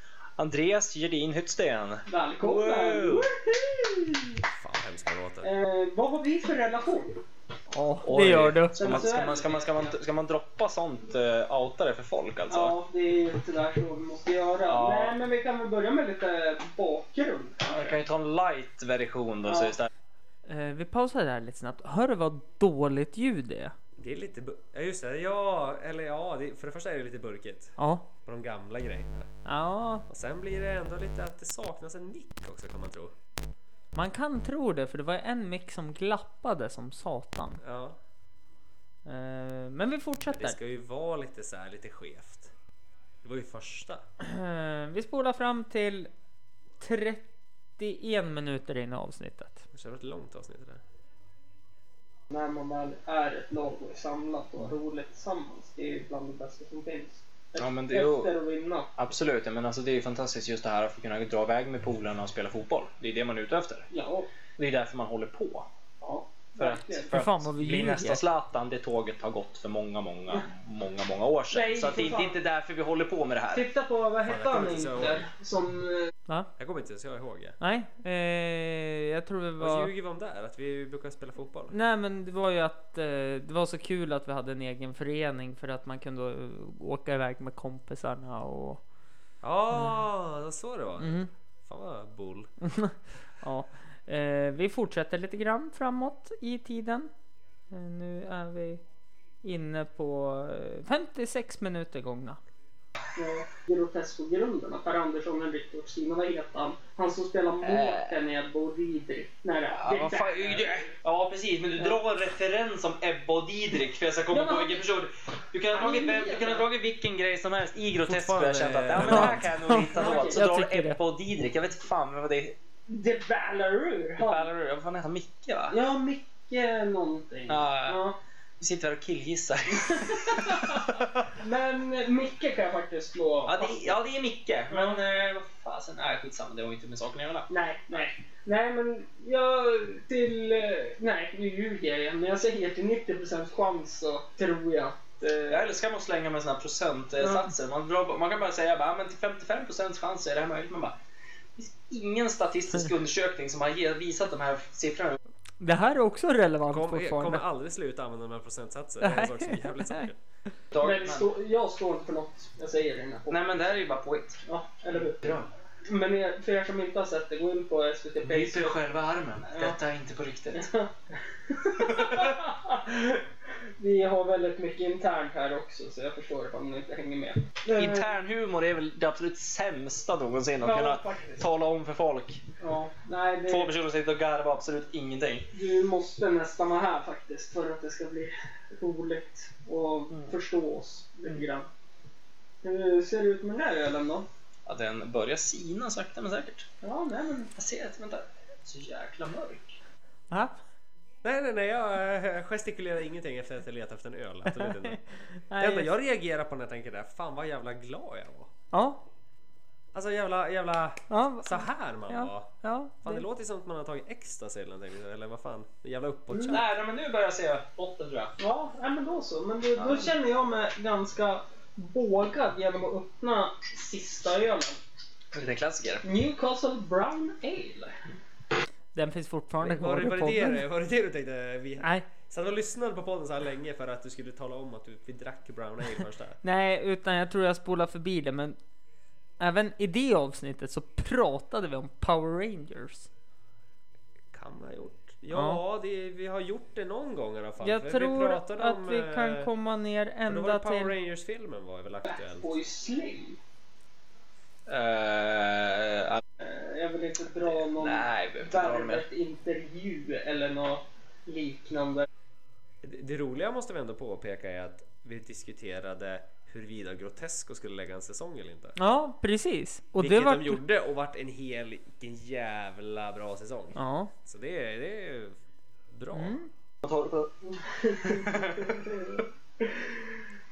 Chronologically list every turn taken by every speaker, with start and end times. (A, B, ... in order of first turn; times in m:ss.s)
0:00.4-0:03.2 A
0:02.1-0:04.4 B
0:04.5-0:05.5 C
0:05.4-0:07.2 B
0:07.7-0:09.0 D
0:08.1-0:12.8 A
0:08.8-0:10.0 B
0:12.5-0:18.0 B
0:14.7-0:15.2 A
0:17.6-0:19.9 A
0:19.5-0:19.8 B
0:20.5-0:23.7 D
0:24.0-0:29.3 C
0:27.8-0:28.1 D
0:29.5-0:30.0 D
0:30.1-0:33.1 C
0:34.0-0:37.6 D
0:37.6-0:38.0 C
0:39.1-0:40.6 D
0:40.3-0:42.5 C
0:43.2-0:44.0 C
0:44.2-0:46.1 D
0:46.8-0:49.7 D
0:49.7-0:50.8 C
0:52.3-0:58.9 B
0:57.6-0:58.3 A
0:59.0-1:03.9 A
1:03.9-1:04.3 B
1:04.6-1:05.7 A
1:06.0-1:07.1 B
1:06.6-1:13.6 A
1:07.1-1:08.2 D
1:11.5-1:12.4 B
1:13.5-1:16.1 B
1:14.2-1:15.3 C
1:16.6-1:17.6 C
1:17.6-1:19.9 D
1:19.6-1:21.8 C
1:21.7-1:28.8 D
1:29.4-1:32.5 C
1:31.0-1:31.3 D
1:32.6-1:37.1 D
1:37.7-1:38.8 D
1:39.4-1:42.4 D
1:43.2-1:50.9 B
1:47.6-1:48.1 A
1:49.8-2:02.6 A
1:54.3-1:54.8 B
1:55.7-1:56.7 B
1:58.0-1:59.7 C
1:59.0-2:01.0 D
1:59.8-2:00.5 B
2:02.9-2:04.5 B
2:04.2-2:05.8 A
2:05.7-2:08.2 B
2:07.5-2:08.0 A
2:08.6-2:11.3 A
2:09.8-2:14.0 B
2:13.5-2:18.1 A
2:14.7-2:15.0 B
2:17.5-2:25.7 B
2:25.5-2:31.0 A
2:27.2-2:27.5 B
2:31.6-2:35.2 A
2:35.6-2:37.4 D
2:36.7-2:40.2 C
2:39.0-2:40.1 D
2:40.7-2:41.3 A
2:40.8-2:43.4 B
2:43.3-2:44.4 A
2:44.5-2:45.3 B
2:45.2-2:45.5 A
2:45.9-2:48.8 B
2:48.2-2:50.7 A
2:49.5-2:49.8 B
2:50.6-2:50.9 B
2:51.5-2:53.2 B
2:51.8-2:52.4 A
2:53.8-2:58.1 B
2:57.7-3:02.4 A
3:00.6-3:01.4 B
3:02.6-3:03.7 B
3:03.5-3:05.5 A
3:05.5-3:11.7 B
3:12.6-3:14.3 B
3:14.7-3:16.7 A
3:16.8-3:17.5 B
3:17.5-3:19.8 A
3:20.3-3:20.6 D
3:21.2-3:25.0 C
3:24.5-3:25.9 D
3:25.6-3:28.5 C
3:28.7-3:29.0 D
3:29.9-3:36.7 C
3:31.1-3:33.2 D
3:36.3-3:36.6 B
3:36.5-3:38.3 A
3:38.4-3:44.8 B
3:39.8-3:40.1 A
3:45.3-3:46.0 A
3:46.0-3:48.0 B
3:49.0-3:50.6 D
3:49.6-3:56.4 C
3:51.8-3:52.1 D
3:56.4-3:58.6 D
3:59.4-4:03.1 D
4:04.3-4:09.5 C
4:05.3-4:05.6 D
4:07.6-4:11.0 D
4:10.3-4:12.6 C
4:12.1-4:13.4 B
4:14.7-4:16.2 A
4:16.4-4:22.1 B
4:17.4-4:19.0 A
4:22.8-4:28.8 C
4:28.8-4:30.6 D
4:30.0-4:35.4 C
4:33.8-4:34.1 D
4:35.9-4:36.4 C
4:36.1-4:36.5 D
4:36.8-4:37.3 A
4:37.5-4:40.1 B
4:38.0-4:39.2 A